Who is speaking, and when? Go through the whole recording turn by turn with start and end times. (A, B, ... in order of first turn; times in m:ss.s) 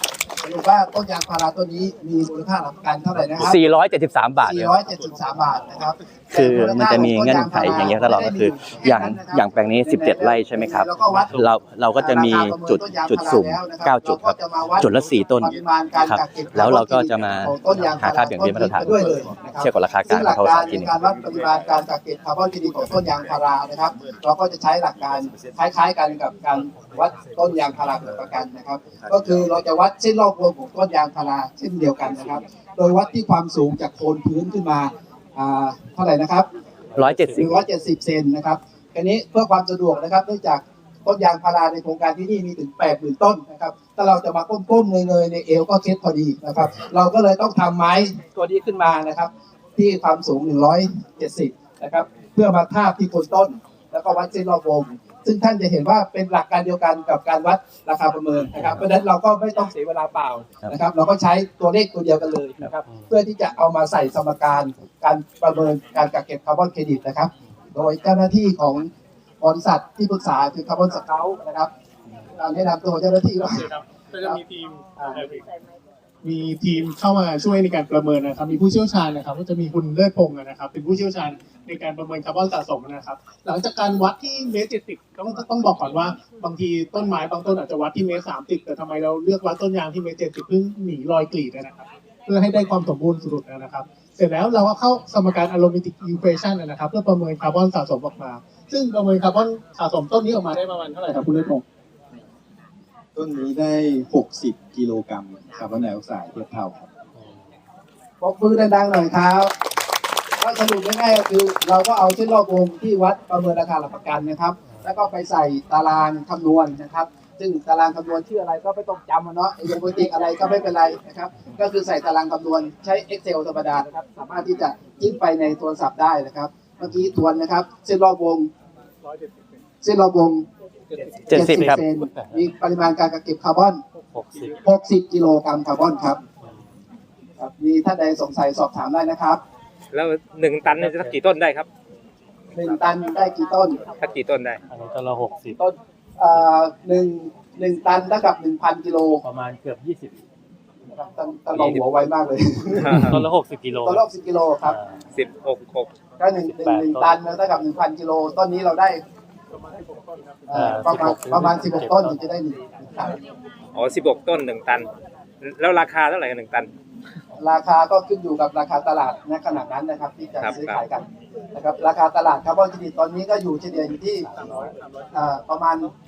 0:00.4-0:03.6 A
0:03.3-0:04.7 B
0:04.4-0:11.4 A
0:06.3-0:21.1 B
0:12.0-0:36.5 A
0:36.9-0:37.5 B
0:37.0-0:37.6 C
0:37.3-1:08.9 A
1:09.4-1:11.7 A
1:12.4-1:14.4 A
1:13.4-1:15.4 D
1:15.0-1:15.2 A
1:16.2-1:41.6 D
1:43.2-1:46.8 E
1:48.2-1:49.5 A
1:50.4-2:08.5 A
1:54.7-1:54.9 C
2:09.8-2:10.5 A
2:11.2-2:12.0 B
2:11.3-2:13.8 A
2:14.1-2:14.6 C
2:14.6-2:16.2 A
2:17.4-2:19.4 A
2:19.9-2:21.7 F
2:20.6-2:21.2 C
2:22.5-2:23.8 A
2:24.0-2:24.6 F
2:24.7-2:25.6 C
2:25.6-2:29.2 A
2:29.2-2:30.2 C
2:30.9-2:33.2 A
2:31.5-2:31.8 F
2:32.8-2:33.2 F
2:33.0-2:34.0 C
2:33.8-2:34.8 A
2:34.6-2:35.0 C
2:35.1-2:35.9 F
2:36.2-2:39.0 A
2:36.4-2:37.2 C
2:40.5-2:43.2 A
2:40.5-2:42.2 C
2:43.7-2:44.9 F
2:45.4-2:46.7 F
2:47.4-2:54.3 A
2:50.4-2:50.8 F
2:55.1-2:55.9 A